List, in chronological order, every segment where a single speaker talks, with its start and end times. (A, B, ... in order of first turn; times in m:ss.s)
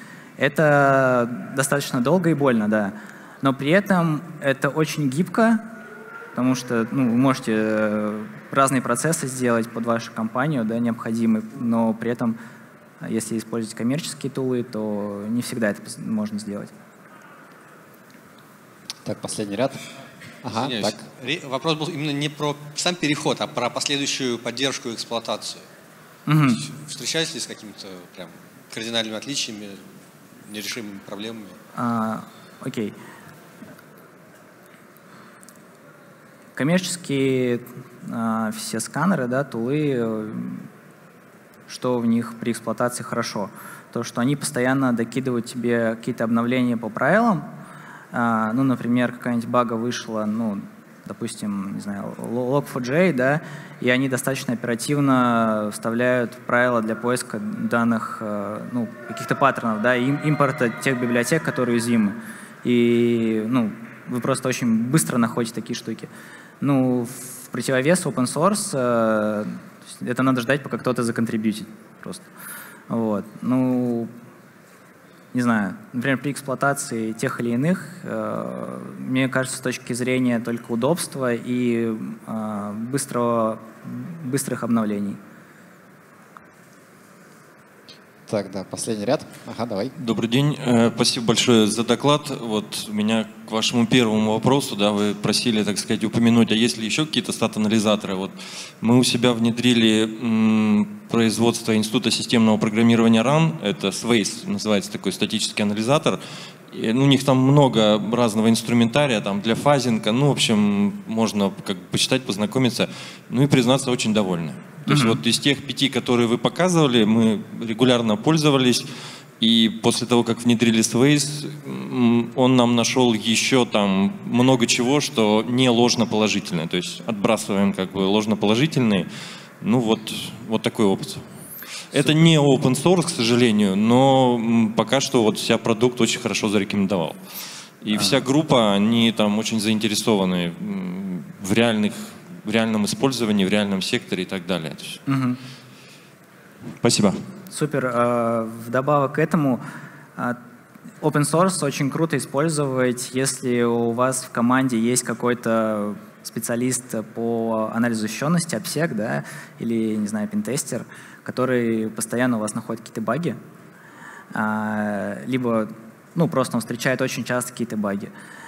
0:00.4-0:05.6 A
0:06.3-0:12.4 A
0:13.0-0:16.7 A
0:19.0-0:19.8 B
0:20.4-0:21.0 B
0:20.5-0:25.6 C
0:26.3-0:26.6 A
0:26.5-0:31.6 C
0:31.8-0:33.0 A
0:36.6-0:40.7 A
0:41.7-0:47.5 A
0:48.1-1:06.1 A
1:06.6-1:12.3 A
1:12.9-1:14.1 A
1:15.3-1:25.2 A
1:28.3-1:29.9 B
1:30.0-1:58.9 D
1:54.9-1:55.2 A
1:59.4-2:09.1 D
2:09.6-2:11.2 D
2:11.9-2:17.2 D
2:17.8-2:25.0 D
2:25.1-2:25.4 A
2:26.8-2:27.2 D
2:27.5-2:29.6 A
2:31.0-2:43.4 A
2:44.3-2:48.1 A